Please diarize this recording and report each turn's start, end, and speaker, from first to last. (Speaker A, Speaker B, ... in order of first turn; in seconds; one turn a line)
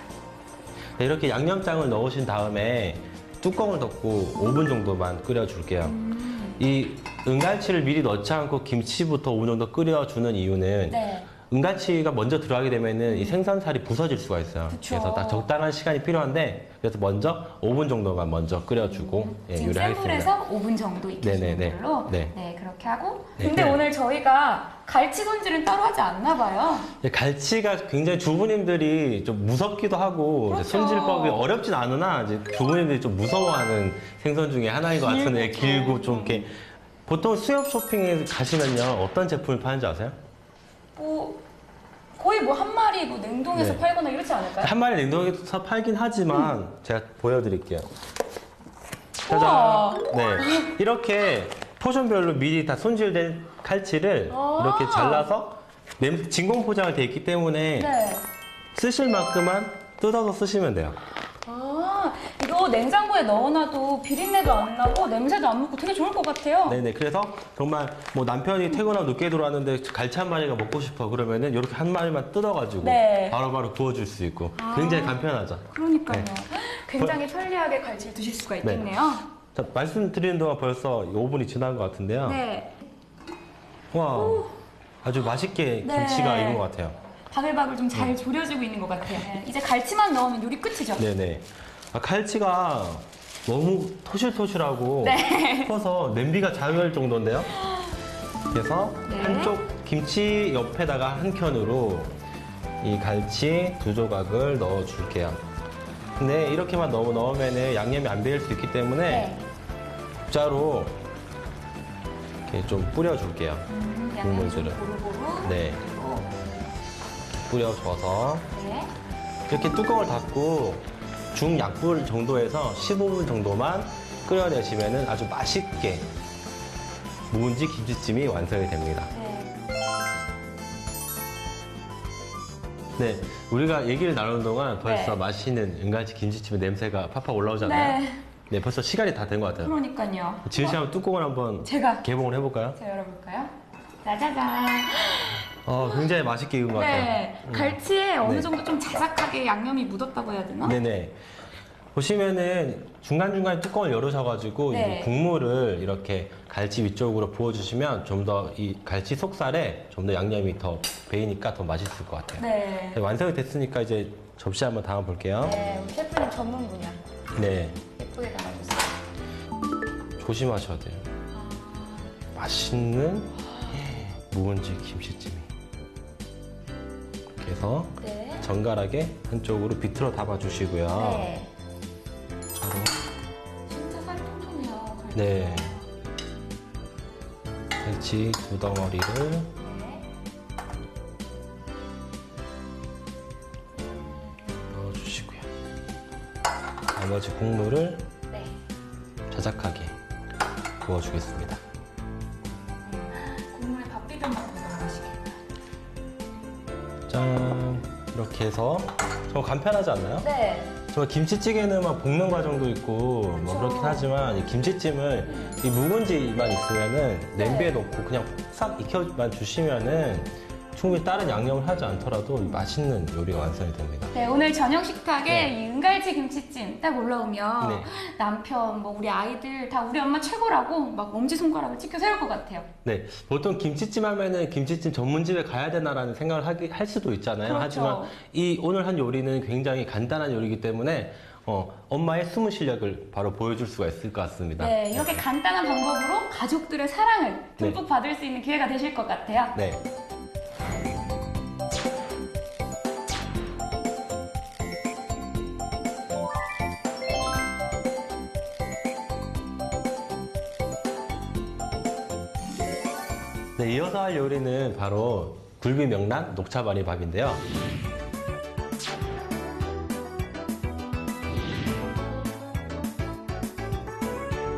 Speaker A: 1.0-6.0
Speaker B: 5.8-6.6
Speaker A: 6.6-20.3
Speaker B: 10.9-11.3
Speaker B: 13.1-13.4
Speaker B: 14.7-15.5
Speaker B: 18.8-26.9
Speaker A: 21.2-22.3
Speaker A: 23.4-23.8
Speaker A: 27.0-36.5
Speaker B: 30.5-31.5
Speaker B: 34.9-36.4
Speaker A: 37.1-40.2
Speaker B: 41.0-41.4
Speaker B: 42.2-44.7
Speaker A: 43.5-43.8
Speaker A: 44.6-47.9
Speaker B: 49.2-50.7
Speaker A: 49.3-57.9
Speaker B: 54.3-55.3
Speaker B: 57.8-58.2
Speaker A: 58.7-61.0
Speaker B: 61.4-66.8
Speaker A: 66.7-76.3
Speaker B: 72.8-73.4
Speaker B: 74.5-79.3
Speaker A: 79.5-82.4
Speaker B: 82.2-82.8
Speaker A: 83.9-84.5
Speaker B: 84.1-84.5
Speaker A: 85.0-87.0
Speaker B: 85.8-86.7
Speaker B: 87.3-91.0
Speaker A: 91.0-97.5
Speaker B: 95.0-95.7
Speaker B: 97.6-97.9
Speaker A: 98.5-102.2
Speaker B: 99.0-99.6
Speaker A: 102.8-105.4
Speaker A: 106.2-109.3
Speaker B: 109.0-109.5
Speaker A: 110.3-111.0
Speaker A: 112.5-113.7
Speaker B: 113.7-116.4
Speaker A: 114.2-114.8
Speaker A: 115.4-115.8
Speaker A: 117.5-118.5
Speaker B: 118.5-118.9
Speaker A: 119.5-126.1
Speaker A: 127.3-129.1
Speaker B: 129.1-129.5
Speaker A: 133.0-139.7
Speaker B: 134.8-135.2
Speaker B: 137.6-138.2
Speaker B: 139.6-140.8
Speaker A: 140.5-142.8
Speaker B: 141.6-142.1
Speaker B: 142.7-143.5
Speaker B: 144.0-145.5
Speaker A: 145.7-148.5
Speaker B: 146.7-150.8
Speaker A: 150.6-151.2
Speaker A: 151.9-162.4
Speaker B: 154.7-155.1
Speaker B: 162.4-163.0
Speaker A: 162.9-165.6
Speaker B: 165.4-167.0
Speaker A: 167.4-167.8
Speaker B: 167.9-169.0
Speaker A: 170.2-171.0
Speaker B: 171.3-172.2
Speaker A: 172.3-175.5
Speaker B: 173.4-173.8
Speaker A: 177.4-181.3
Speaker B: 178.0-178.5
Speaker B: 180.9-181.5
Speaker A: 182.6-182.9
Speaker B: 183.7-185.8
Speaker A: 185.2-185.7
Speaker A: 187.8-189.5
Speaker B: 189.6-190.1
Speaker B: 194.2-194.5
Speaker A: 194.7-195.5
Speaker A: 197.0-198.1
Speaker B: 198.3-198.6
Speaker A: 199.3-199.9
Speaker A: 200.8-201.6
Speaker B: 202.8-205.4
Speaker A: 207.1-210.3
Speaker B: 210.2-210.7
Speaker A: 210.9-224.1
Speaker B: 213.4-214.1
Speaker B: 215.3-215.6
Speaker B: 217.3-217.8
Speaker B: 224.1-232.7
Speaker A: 225.3-225.5
Speaker A: 227.6-227.9
Speaker A: 232.8-245.2
Speaker B: 237.4-238.2
Speaker B: 244.6-249.6
Speaker A: 249.6-249.8
Speaker A: 263.6-267.4